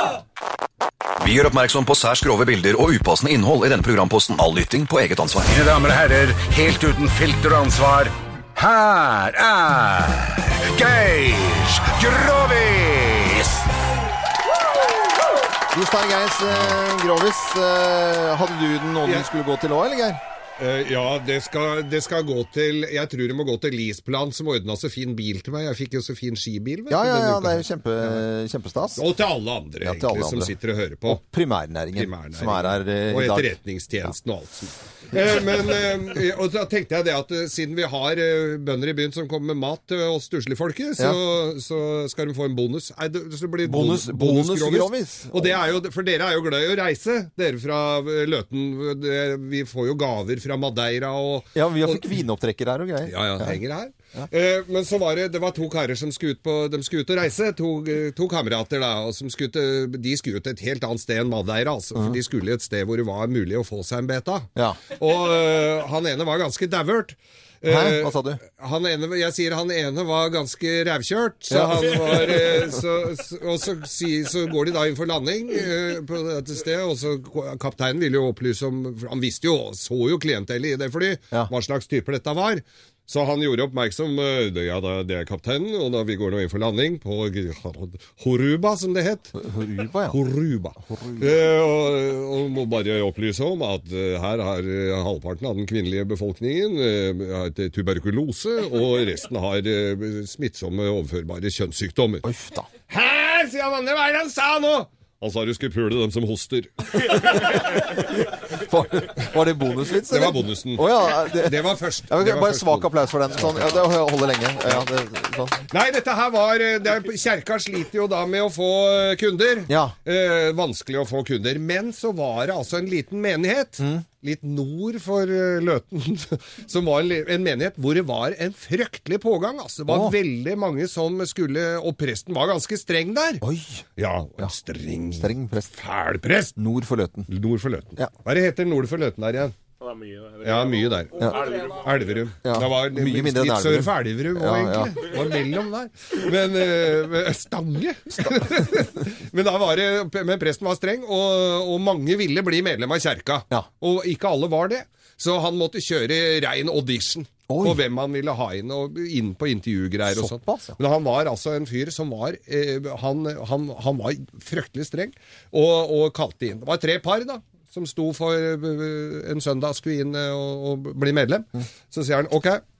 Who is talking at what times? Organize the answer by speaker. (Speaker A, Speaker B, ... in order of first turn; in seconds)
Speaker A: 1.2-5.6
Speaker B: 5.6-13.6
Speaker C: 15.7-20.2, 26.9-29.0, 29.8-30.5, 31.1-33.5, 43.6-45.6, 51.5-53.6, 67.7-68.4, 71.5-72.4, 89.4-90.2, 90.9-91.2, 102.2-102.7, 107.1-115.7, 119.7-120.0, 129.9-130.2, 133.4-133.8, 135.2-135.7, 136.6-137.3, 141.2-141.4, 142.4-145.0, 157.5-157.8, 160.1-160.8
Speaker D: 20.6-28.2, 29.0-31.2, 31.9-52.2, 53.1-89.4, 90.1-102.2, 102.9-107.8, 110.1-113.9, 115.7-133.4, 134.0-136.6, 137.3-139.5, 140.4-172.6
Speaker E: 139.8-141.9